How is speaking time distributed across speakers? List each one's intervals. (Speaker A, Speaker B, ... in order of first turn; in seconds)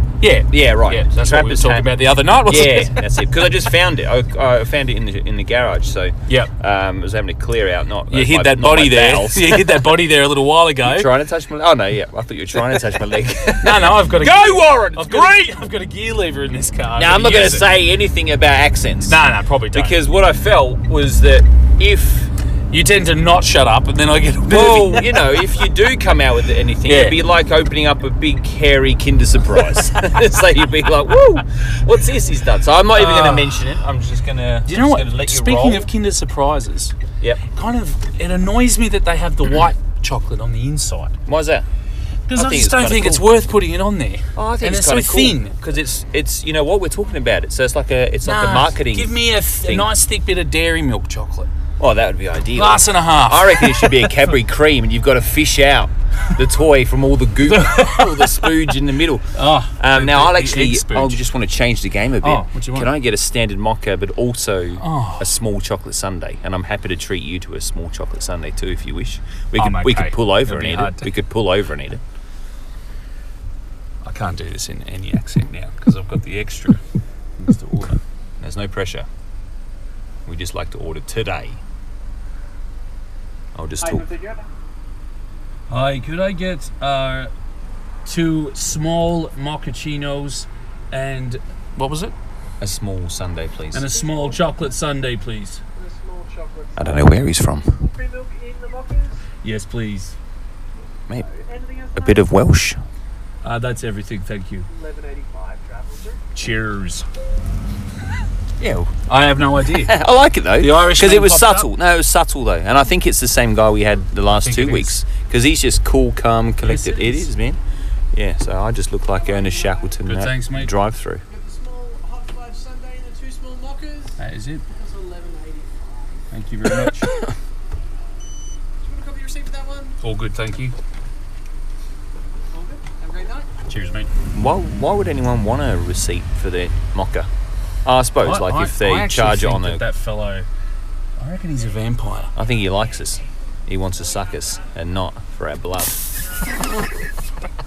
Speaker A: 0.2-3.0, 8.1-11.1, 13.5-17.7, 19.1-20.0, 22.7-25.2, 26.9-27.2, 32.9-33.6, 34.7-36.9, 37.5-41.1, 42.3-45.5, 48.2-51.5, 52.5-54.2, 57.4-58.5, 59.3-61.2, 62.2-62.9, 64.8-65.3, 69.5-71.1, 74.0-76.8, 77.4-78.0, 85.7-87.3, 88.0-92.1, 93.7-95.6, 99.4-100.2, 103.4-104.7, 106.3-107.0, 109.1-110.0, 110.6-111.7, 114.3-115.0, 116.6-117.3, 120.0-120.7, 124.2-124.6, 126.3-127.2, 130.0-130.7, 133.7-134.1, 138.2-140.4, 141.2-142.3
Speaker B: 0.5-9.9, 10.8-15.6, 17.0-19.2, 19.7-22.3, 24.5-35.9, 41.2-41.7, 42.3-43.3, 44.3-49.9, 51.8-72.0, 78.4-79.1, 80.2-81.6, 83.5-84.1, 92.6-93.8, 96.8-97.8, 101.9-102.8, 108.6-108.9, 109.6-117.6, 118.1-121.2, 134.3-137.3, 137.8-139.8, 142.3-146.1
Speaker C: 83.8-84.5, 93.8-94.7, 95.7-99.3, 101.1-102.4, 104.7-106.2, 119.1-120.0, 121.2-126.2, 128.8-130.0, 132.5-133.5